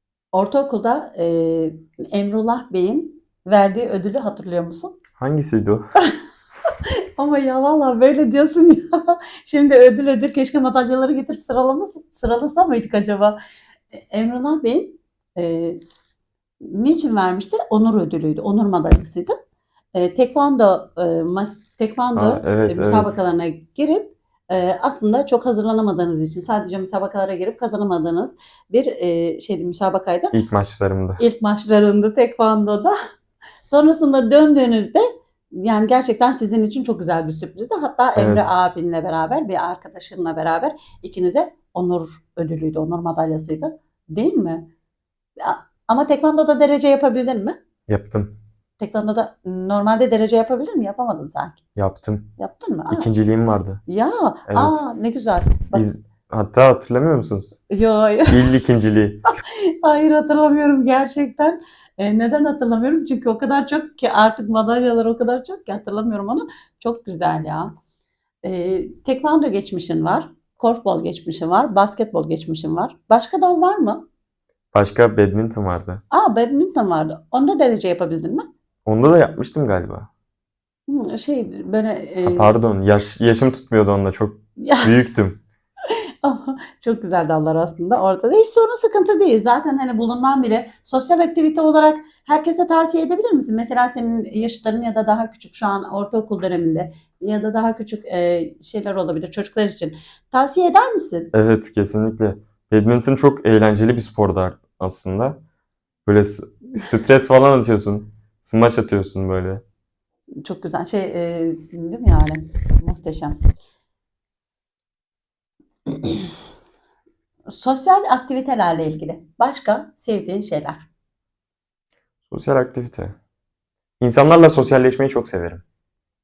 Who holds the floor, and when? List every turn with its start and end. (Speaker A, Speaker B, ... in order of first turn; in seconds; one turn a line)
Speaker A: 0.3-5.0
Speaker B: 5.2-5.9
Speaker A: 6.7-13.4
Speaker A: 13.9-15.8
Speaker A: 16.6-19.3
Speaker A: 19.9-30.4
Speaker B: 22.1-23.2
Speaker B: 30.3-31.2
Speaker A: 31.2-32.9
Speaker A: 33.6-44.7
Speaker B: 38.1-38.6
Speaker A: 45.4-47.5
Speaker B: 47.9-48.4
Speaker A: 48.8-51.6
Speaker B: 51.8-52.3
Speaker A: 52.4-53.1
Speaker B: 52.9-53.8
Speaker A: 53.9-55.9
Speaker B: 54.5-54.8
Speaker B: 55.7-57.6
Speaker A: 57.7-58.6
Speaker B: 58.3-59.2
Speaker A: 59.4-67.7
Speaker A: 68.4-74.0
Speaker B: 74.7-76.0
Speaker A: 76.1-78.5
Speaker B: 78.8-80.1
Speaker A: 80.9-82.5
Speaker B: 82.2-85.4
Speaker A: 84.6-84.9
Speaker A: 85.8-101.3
Speaker B: 101.3-105.4
Speaker B: 106.0-109.6
Speaker A: 110.4-113.4
Speaker A: 115.9-116.3
Speaker A: 117.5-120.8
Speaker B: 122.3-123.2
Speaker B: 124.0-125.6